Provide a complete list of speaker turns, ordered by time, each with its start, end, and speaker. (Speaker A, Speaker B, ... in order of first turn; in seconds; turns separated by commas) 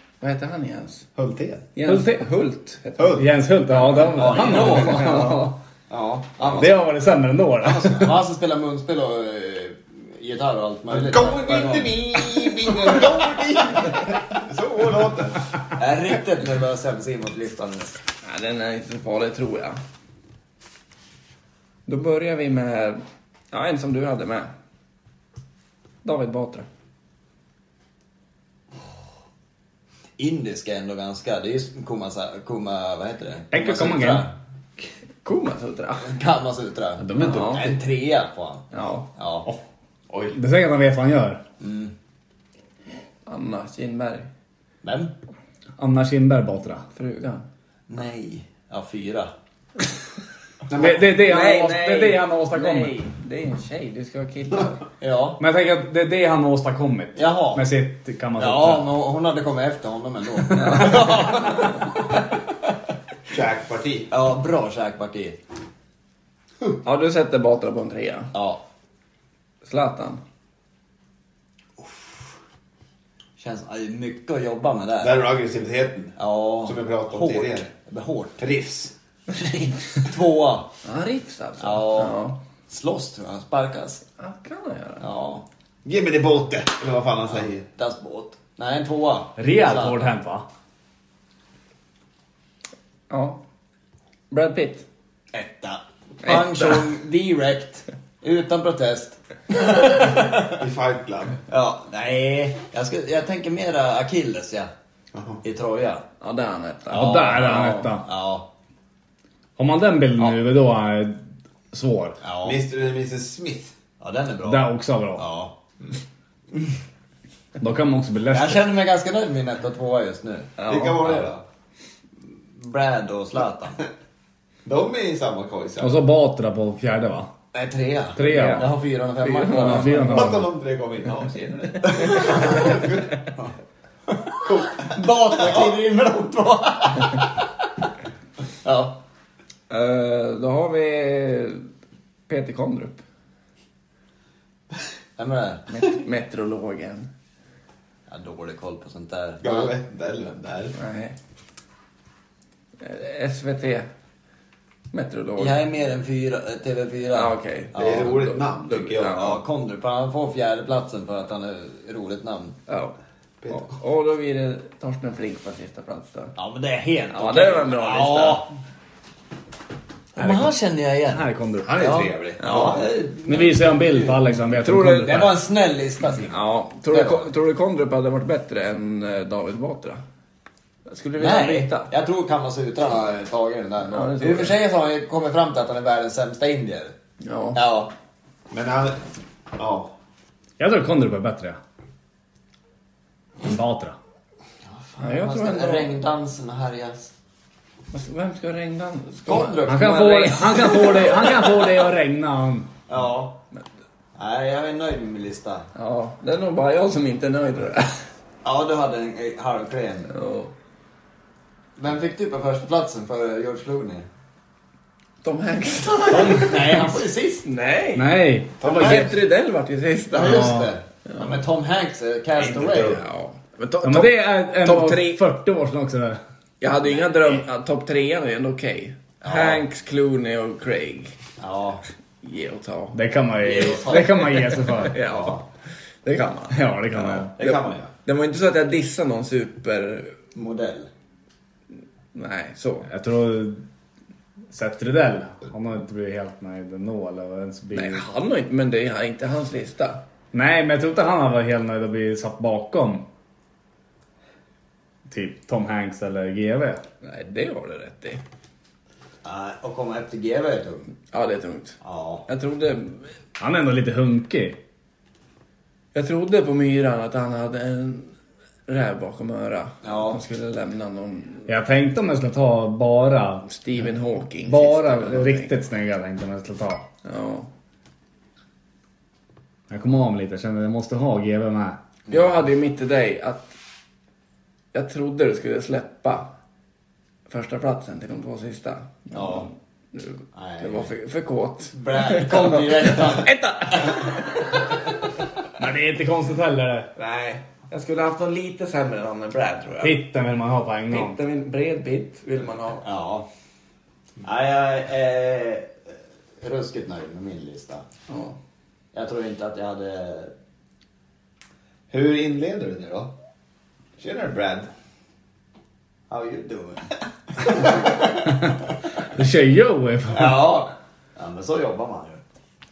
Speaker A: 0.2-1.1, Speaker B: 1.1-1.7, Speaker A: 1.8-5.5, Speaker C: 1.9-2.2, Speaker B: 3.0-3.3, Speaker C: 3.1-5.6, Speaker D: 4.1-5.3, Speaker D: 5.9-6.8, Speaker C: 6.5-8.2, Speaker D: 7.6-13.0, Speaker B: 10.9-15.5, Speaker D: 15.8-18.0, Speaker A: 18.2-19.8, Speaker A: 21.9-24.5, Speaker A: 26.0-26.6, Speaker D: 30.2-34.3, Speaker C: 33.5-34.3, Speaker A: 35.2-36.1, Speaker D: 36.0-39.5, Speaker A: 37.1-37.7, Speaker A: 38.7-39.1, Speaker C: 40.3-41.4, Speaker D: 41.6-41.9, Speaker A: 43.2-44.3, Speaker D: 44.8-45.1, Speaker C: 45.8-46.8, Speaker A: 46.9-47.5, Speaker D: 47.9-49.3, Speaker B: 50.7-51.0, Speaker C: 50.7-53.0, Speaker A: 51.0-54.8, Speaker D: 55.0-55.4, Speaker C: 55.4-58.9, Speaker D: 57.1-57.7, Speaker D: 58.4-62.0, Speaker A: 60.5-61.2, Speaker B: 63.3-64.1, Speaker D: 64.1-65.4, Speaker A: 66.8-68.3, Speaker D: 68.3-68.6, Speaker A: 69.6-70.2, Speaker D: 73.4-75.2, Speaker B: 75.0-77.7, Speaker D: 76.2-78.4, Speaker B: 78.4-78.9, Speaker D: 79.3-80.7, Speaker A: 80.8-82.4, Speaker D: 81.6-84.0, Speaker A: 84.2-85.1, Speaker D: 85.0-85.4, Speaker B: 85.8-87.7, Speaker D: 87.7-90.1, Speaker C: 89.4-90.5, Speaker A: 93.1-93.4, Speaker A: 94.3-94.8, Speaker D: 95.3-100.6, Speaker A: 96.2-96.9, Speaker B: 100.5-101.4, Speaker D: 101.5-104.7, Speaker B: 105.1-105.4, Speaker D: 105.4-106.0, Speaker A: 106.2-107.9, Speaker C: 106.9-108.0, Speaker D: 106.9-108.5, Speaker C: 109.6-111.2, Speaker C: 111.7-112.2, Speaker D: 112.2-112.6, Speaker B: 112.4-113.7, Speaker D: 114.0-115.5, Speaker C: 114.4-115.2, Speaker C: 117.6-118.7, Speaker D: 118.3-121.3, Speaker A: 120.6-121.1, Speaker B: 120.7-121.4, Speaker D: 122.5-123.8, Speaker B: 124.6-126.0, Speaker C: 125.8-127.3, Speaker D: 127.5-130.2, Speaker C: 128.2-128.7, Speaker A: 128.2-130.4, Speaker C: 129.5-130.5, Speaker B: 130.0-133.0, Speaker A: 131.8-132.4, Speaker D: 131.9-132.9, Speaker D: 134.1-137.3, Speaker B: 134.4-135.8, Speaker D: 138.6-139.0, Speaker A: 139.7-141.7, Speaker A: 142.3-143.0, Speaker D: 145.2-145.6, Speaker A: 145.7-147.1, Speaker D: 148.1-149.7, Speaker B: 149.4-150.8, Speaker A: 150.7-151.2, Speaker A: 152.8-153.9, Speaker A: 154.9-155.6, Speaker D: 155.4-158.2, Speaker A: 157.1-159.4, Speaker B: 157.7-159.2, Speaker D: 159.1-162.6, Speaker A: 162.7-162.9, Speaker B: 163.4-163.7, Speaker A: 163.5-166.3, Speaker D: 166.3-168.5, Speaker A: 167.1-168.4, Speaker D: 170.1-174.2, Speaker C: 170.2-170.5, Speaker C: 171.1-172.1, Speaker B: 171.6-172.9, Speaker A: 172.4-173.1, Speaker C: 173.2-175.4, Speaker A: 174.5-175.3, Speaker D: 175.0-177.3, Speaker A: 176.2-180.0, Speaker A: 180.8-181.9, Speaker D: 181.2-186.9, Speaker A: 183.9-184.6, Speaker A: 187.2-187.6, Speaker D: 187.5-187.9, Speaker B: 188.5-189.0, Speaker B: 189.5-189.9, Speaker C: 190.6-191.6, Speaker C: 193.4-194.0, Speaker D: 194.6-197.1, Speaker A: 195.0-195.9, Speaker A: 197.9-201.4, Speaker D: 199.2-201.3, Speaker C: 199.7-202.7, Speaker D: 202.9-203.4, Speaker D: 204.2-205.7, Speaker A: 205.7-208.0, Speaker D: 208.4-210.1, Speaker A: 210.1-210.5, Speaker D: 211.8-214.1, Speaker A: 215.2-216.9, Speaker C: 216.1-217.0, Speaker D: 216.1-217.4, Speaker A: 217.4-221.3, Speaker C: 217.9-219.1, Speaker D: 218.6-219.1, Speaker B: 218.7-219.0, Speaker D: 220.1-223.0, Speaker C: 220.2-220.7, Speaker B: 222.4-223.0, Speaker A: 222.6-225.2, Speaker C: 223.8-226.2, Speaker A: 226.6-231.2, Speaker D: 226.8-227.4, Speaker D: 229.2-229.6, Speaker D: 231.4-231.8, Speaker A: 232.2-233.0, Speaker C: 232.9-235.0, Speaker D: 233.4-235.4, Speaker A: 233.9-235.4, Speaker A: 236.0-240.2, Speaker C: 236.5-237.3, Speaker D: 237.4-237.8, Speaker B: 237.4-237.8, Speaker D: 240.3-240.9, Speaker A: 242.1-242.9, Speaker C: 242.9-243.6, Speaker C: 244.5-248.1, Speaker A: 247.7-250.0, Speaker C: 250.3-253.0, Speaker C: 255.1-256.8, Speaker A: 257.0-258.2, Speaker D: 259.2-260.9, Speaker A: 261.1-263.1, Speaker D: 261.8-262.2, Speaker C: 263.4-264.6, Speaker A: 265.9-268.1, Speaker A: 268.7-271.5, Speaker D: 269.8-270.2, Speaker C: 271.5-273.5, Speaker A: 273.4-275.5, Speaker C: 274.4-276.9, Speaker A: 277.0-277.5, Speaker C: 279.7-281.8, Speaker A: 282.1-283.5, Speaker A: 284.7-286.3, Speaker A: 287.3-294.4, Speaker D: 289.1-289.5, Speaker D: 290.3-290.9, Speaker D: 291.7-294.1, Speaker C: 295.6-296.9, Speaker A: 296.9-300.0, Speaker C: 299.8-301.2, Speaker A: 300.9-302.8, Speaker D: 302.8-303.3, Speaker D: 304.2-305.8, Speaker D: 306.4-307.9, Speaker A: 308.1-308.4, Speaker D: 308.9-310.3, Speaker B: 311.9-313.1, Speaker B: 314.0-314.7, Speaker D: 316.1-318.4, Speaker C: 318.3-320.5, Speaker D: 320.1-322.2